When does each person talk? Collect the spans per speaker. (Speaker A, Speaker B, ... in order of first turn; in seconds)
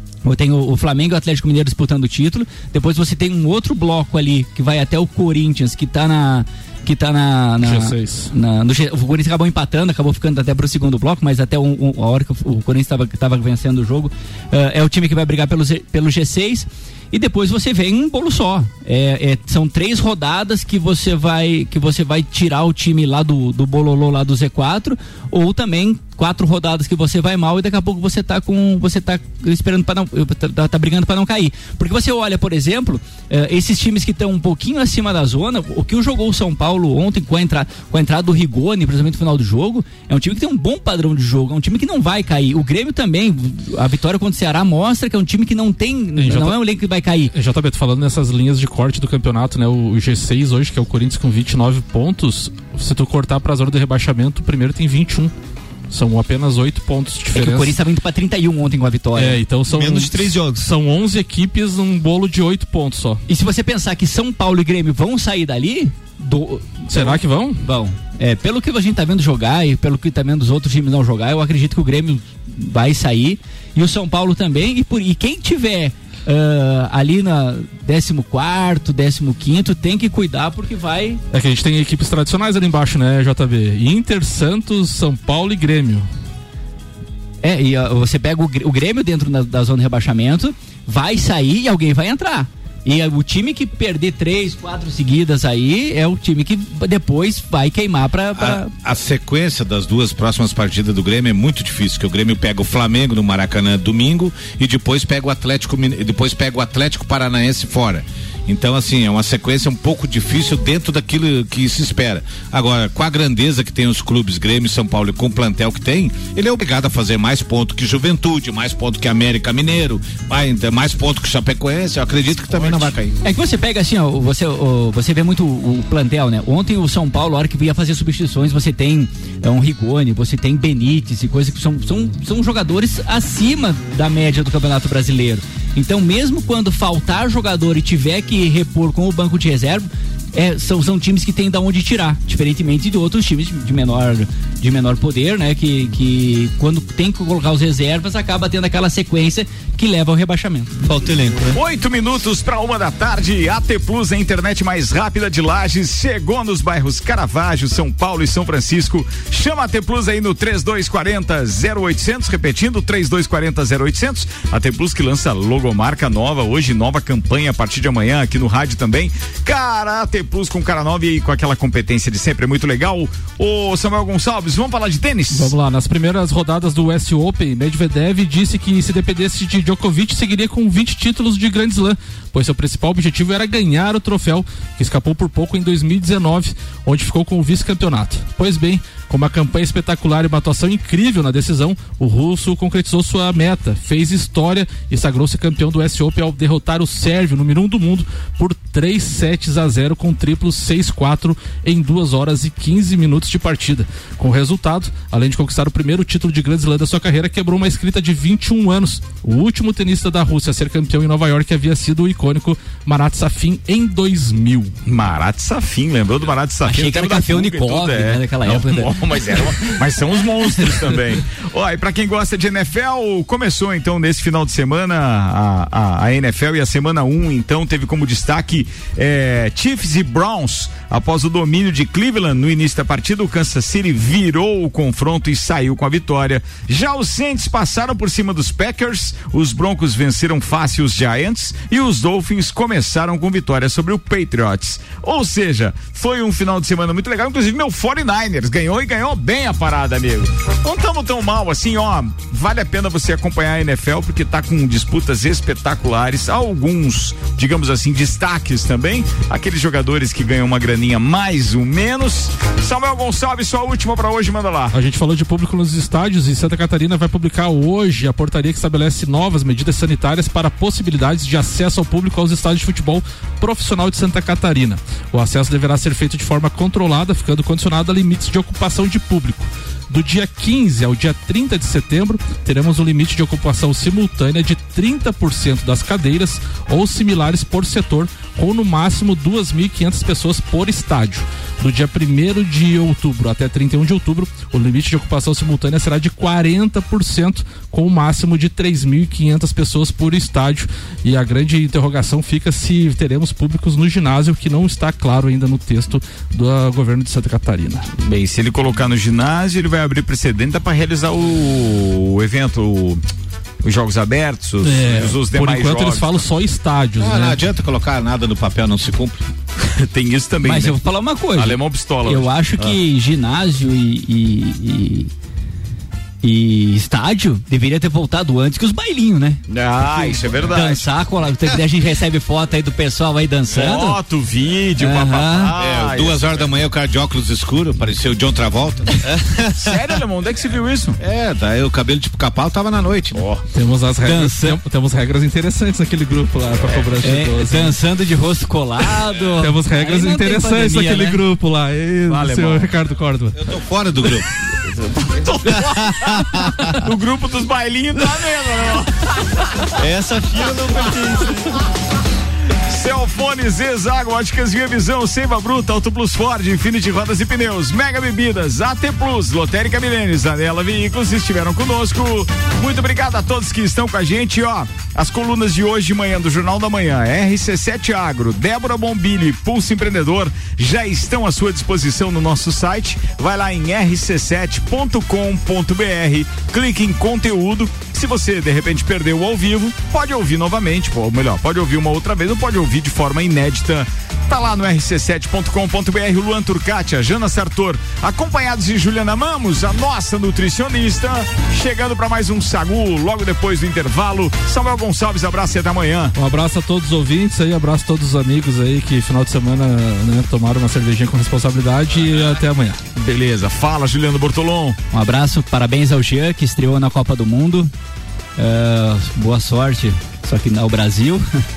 Speaker A: 0.2-47.3, 57.3-59.4, 63.3-81.2, 87.4-98.7, 122.6-150.7, 216.7-219.7, 320.4-325.1, 326.2-329.4, 330.2-334.0, 334.8-335.5, 344.0-344.6, 347.0-351.2, 414.9-417.7, 418.4-421.2
Speaker B: 7.6-8.3, 46.1-46.7, 47.3-55.3, 55.9-57.8, 59.1-63.2, 66.9-67.6, 81.3-86.1, 175.3-214.7, 264.7-307.9, 314.6-317.4, 343.5-347.8, 349.4-353.4, 406.1-412.8
Speaker C: 59.6-60.7, 150.8-151.6, 355.7-356.7, 359.8-361.6
Speaker D: 98.3-123.2, 317.0-319.2, 335.5-339.1, 341.0-343.2, 353.4-354.3
Speaker E: 151.5-175.5, 214.8-264.7, 308.0-313.0, 313.6-316.3, 319.6-320.8, 321.3-322.8, 329.5-330.9, 333.5-336.5, 339.5-341.0, 343.1-343.4, 352.1-352.7, 354.9-359.7, 362.7-406.1, 412.9-414.8